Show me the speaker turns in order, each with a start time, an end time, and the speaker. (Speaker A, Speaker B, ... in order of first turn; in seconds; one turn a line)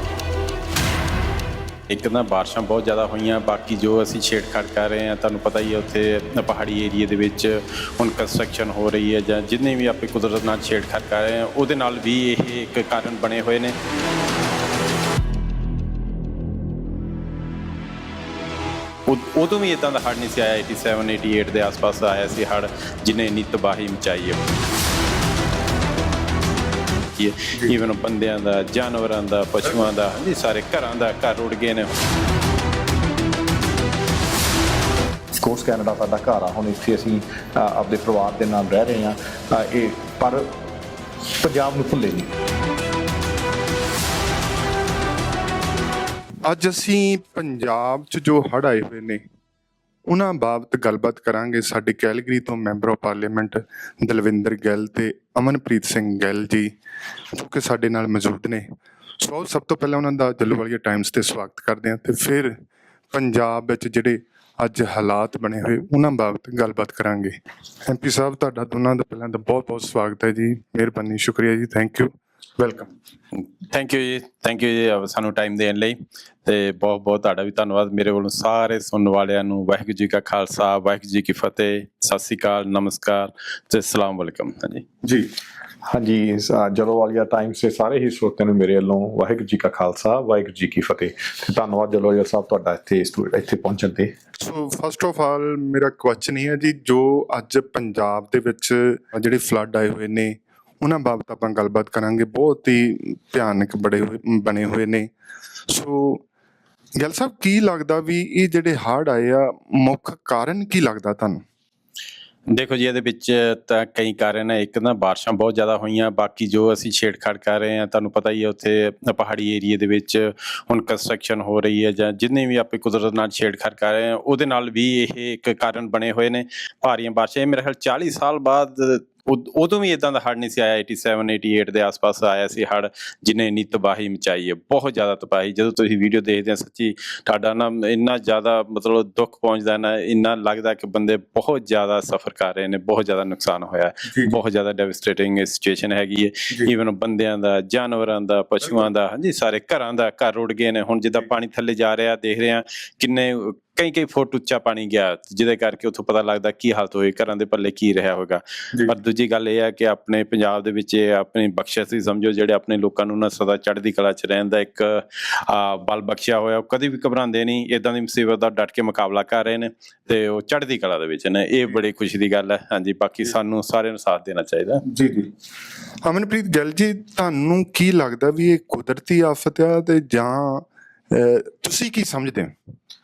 Speaker A: 1.9-13.7
Speaker A: 19.1-24.4
Speaker A: 27.2-31.9
Speaker B: 35.3-40.5
Speaker B: 41.4-42.3
Speaker C: 46.5-49.2
Speaker C: 50.1-56.7
Speaker C: 57.3-58.7
Speaker C: 59.2-62.6
Speaker C: 63.1-72.9
Speaker A: 73.3-84.9
Speaker C: 85.0-85.3
Speaker B: 85.9-94.1
Speaker C: 94.4-105.1
Speaker C: 105.7-106.2
Speaker C: 107.0-111.4
Speaker A: 112.5-174.8
Speaker C: 144.1-144.4
Speaker C: 174.9-175.3
Speaker C: 176.0-182.5